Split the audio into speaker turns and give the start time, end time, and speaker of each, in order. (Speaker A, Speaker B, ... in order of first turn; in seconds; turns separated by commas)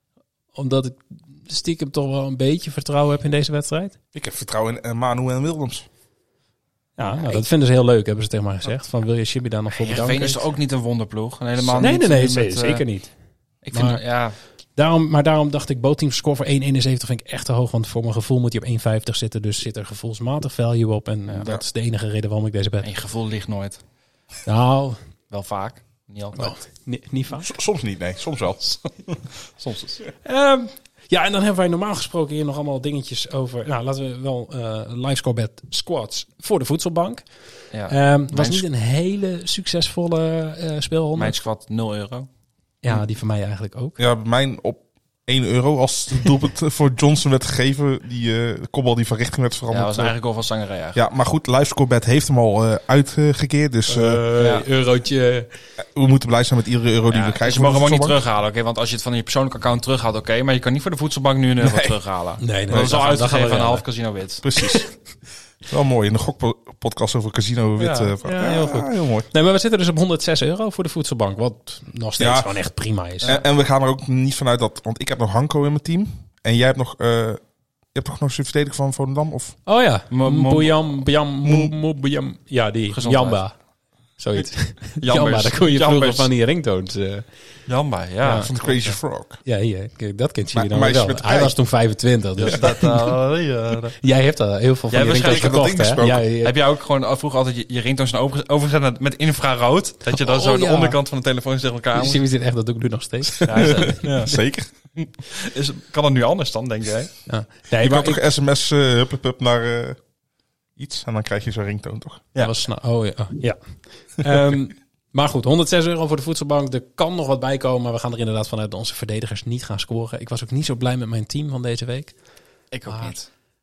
Speaker A: 0.6-4.0, Speaker B: 4.1-5.9, Speaker A: 7.0-10.5, Speaker C: 7.0-7.5, Speaker C: 9.7-12.8, Speaker B: 11.6-11.9, Speaker A: 11.8-13.1, Speaker C: 13.6-14.4, Speaker A: 13.7-14.1, Speaker A: 14.8-22.9, Speaker C: 22.8-23.8, Speaker A: 24.4-25.0, Speaker C: 25.3-26.6, Speaker A: 26.4-27.5, Speaker B: 27.4-28.8, Speaker C: 29.6-30.0, Speaker A: 30.2-41.4, Speaker C: 37.7-38.7, Speaker C: 41.2-42.3, Speaker A: 42.8-44.0, Speaker B: 44.0-50.2, Speaker C: 49.7-51.0, Speaker B: 51.0-54.2, Speaker A: 53.9-55.5, Speaker C: 54.4-54.7, Speaker B: 55.8-58.2, Speaker C: 57.1-64.4, Speaker B: 61.6-62.0, Speaker A: 62.4-63.8, Speaker B: 62.7-63.0, Speaker B: 64.4-65.0, Speaker B: 65.6-69.3, Speaker C: 67.8-68.1, Speaker A: 68.2-73.3, Speaker B: 72.2-72.5, Speaker B: 73.2-77.4, Speaker B: 77.9-79.6, Speaker A: 79.7-83.6, Speaker C: 80.1-81.0, Speaker B: 81.4-81.7, Speaker C: 82.9-83.4, Speaker A: 84.2-87.3, Speaker C: 85.0-86.3, Speaker C: 87.7-89.0, Speaker A: 88.2-88.5, Speaker B: 88.4-89.4, Speaker A: 89.5-93.1, Speaker B: 90.5-91.6, Speaker C: 92.4-94.0, Speaker A: 94.0-96.5, Speaker C: 94.9-102.2, Speaker B: 95.2-96.2, Speaker A: 100.1-101.0, Speaker A: 101.9-104.0, Speaker B: 103.4-104.8, Speaker C: 103.5-104.4, Speaker C: 105.0-107.1, Speaker A: 107.3-108.2, Speaker B: 107.7-110.0, Speaker B: 110.8-112.2, Speaker A: 112.4-122.2, Speaker C: 122.7-123.3, Speaker A: 122.9-123.2